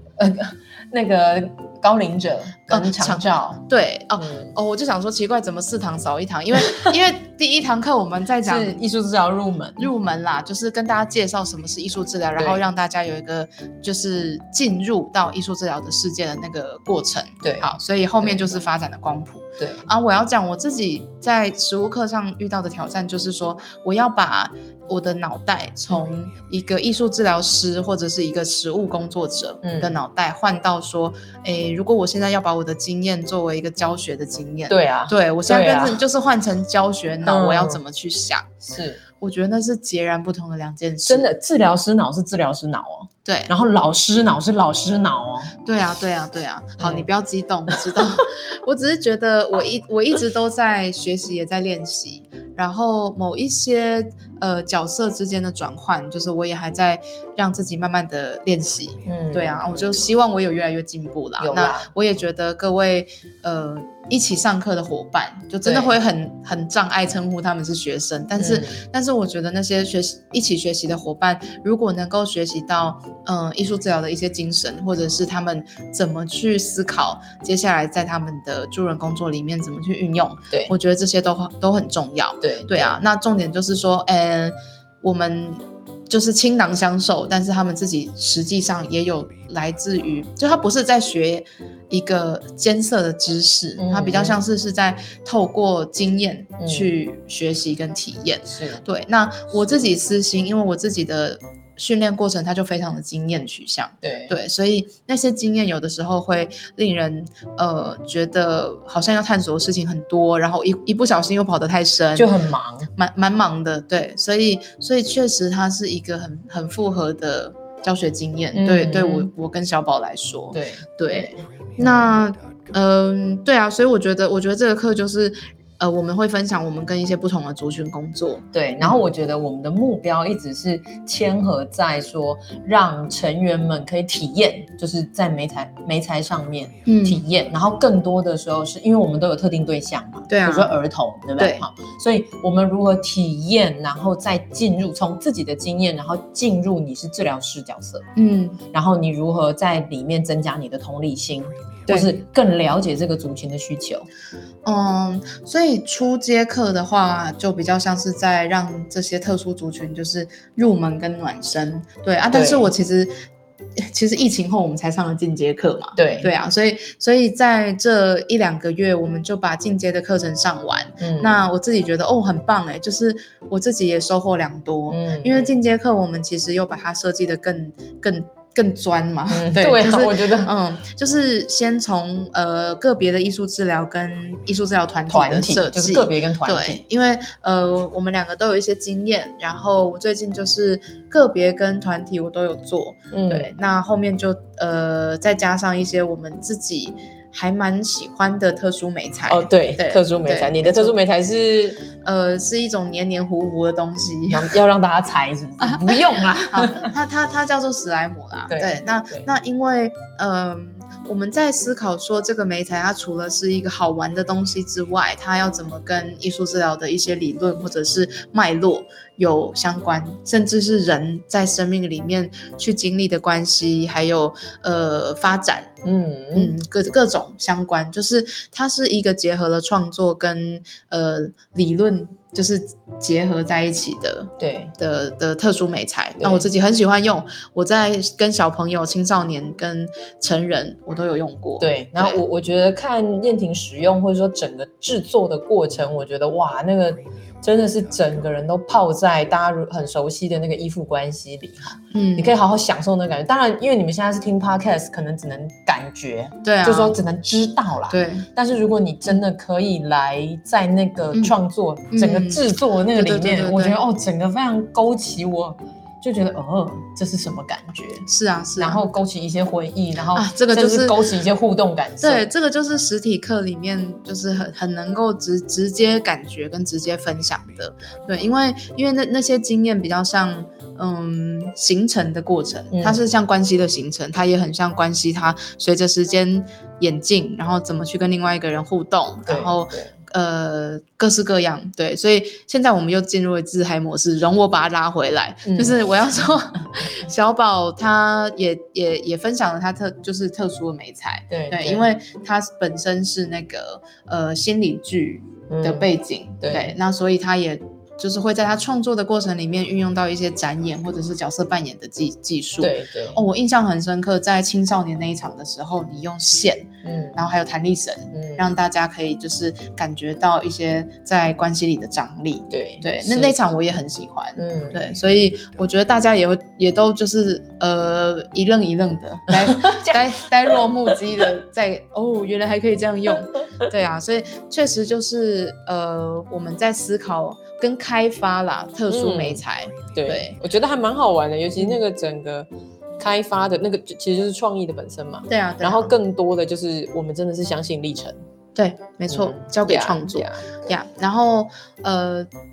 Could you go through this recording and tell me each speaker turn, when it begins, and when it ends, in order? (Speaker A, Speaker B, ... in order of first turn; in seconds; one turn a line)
Speaker A: 0.2-3.6
Speaker B: 2.7-8.8
Speaker A: 4.2-4.5
Speaker A: 8.4-9.9
Speaker B: 9.8-38.5
Speaker A: 17.4-18.4
Speaker A: 19.6-19.8
Speaker A: 29.6-30.0
Speaker A: 34.7-36.0
Speaker A: 37.2-37.8
Speaker A: 38.6-39.0
Speaker B: 39.2-41.3
Speaker A: 41.0-45.5
Speaker B: 43.2-43.5
Speaker B: 45.6-112.3
Speaker A: 46.8-47.1
Speaker A: 59.0-59.6
Speaker A: 61.4-61.9
Speaker A: 65.6-65.9
Speaker A: 68.4-68.8
Speaker A: 82.4-82.9
Speaker A: 93.8-94.4
Speaker A: 96.6-96.9
Speaker A: 98.5-98.8
Speaker A: 104.0-104.3
Speaker A: 112.2-112.9
Speaker B: 113.0-129.0
Speaker A: 118.5-119.3
Speaker A: 120.5-122.1
Speaker A: 128.5-148.0
Speaker B: 136.8-137.2
Speaker B: 140.3-140.8
Speaker B: 141.4-141.6
Speaker B: 148.2-148.6
Speaker A: 148.7-154.1
Speaker B: 151.9-152.2
Speaker B: 154.6-163.1
Speaker A: 162.3-162.7
Speaker B: 163.8-200.9
Speaker A: 166.0-166.3
Speaker A: 171.0-171.3
Speaker A: 174.9-175.5
Speaker A: 179.3-180.5
Speaker A: 185.1-186.8
Speaker A: 193.1-193.5
Speaker A: 199.3-201.8
Speaker B: 202.0-204.5
Speaker A: 204.3-206.9
Speaker B: 205.6-206.0
Speaker B: 206.5-225.7
Speaker A: 208.5-209.3
Speaker A: 225.8-226.5
Speaker B: 226.3-242.2
Speaker A: 234.4-234.7
Speaker A: 236.2-236.5
Speaker A: 241.6-268.1
Speaker B: 251.9-252.3
Speaker B: 256.4-257.0
Speaker B: 257.9-258.3
Speaker B: 261.9-263.8
Speaker B: 268.1-268.8
Speaker A: 268.6-272.2
Speaker B: 270.1-271.0
Speaker B: 272.0-340.4
Speaker A: 282.7-283.0
Speaker A: 289.2-289.9
Speaker A: 295.4-295.8
Speaker A: 301.3-301.9
Speaker A: 305.5-305.9
Speaker A: 306.4-306.8
Speaker A: 312.6-313.2
Speaker A: 316.8-317.2
Speaker A: 318.1-318.4
Speaker A: 322.5-323.4
Speaker A: 324.4-324.8
Speaker A: 329.4-330.0
Speaker A: 338.9-339.4
Speaker A: 339.9-348.2
Speaker B: 345.3-345.9
Speaker B: 348.5-352.3
Speaker A: 349.1-350.6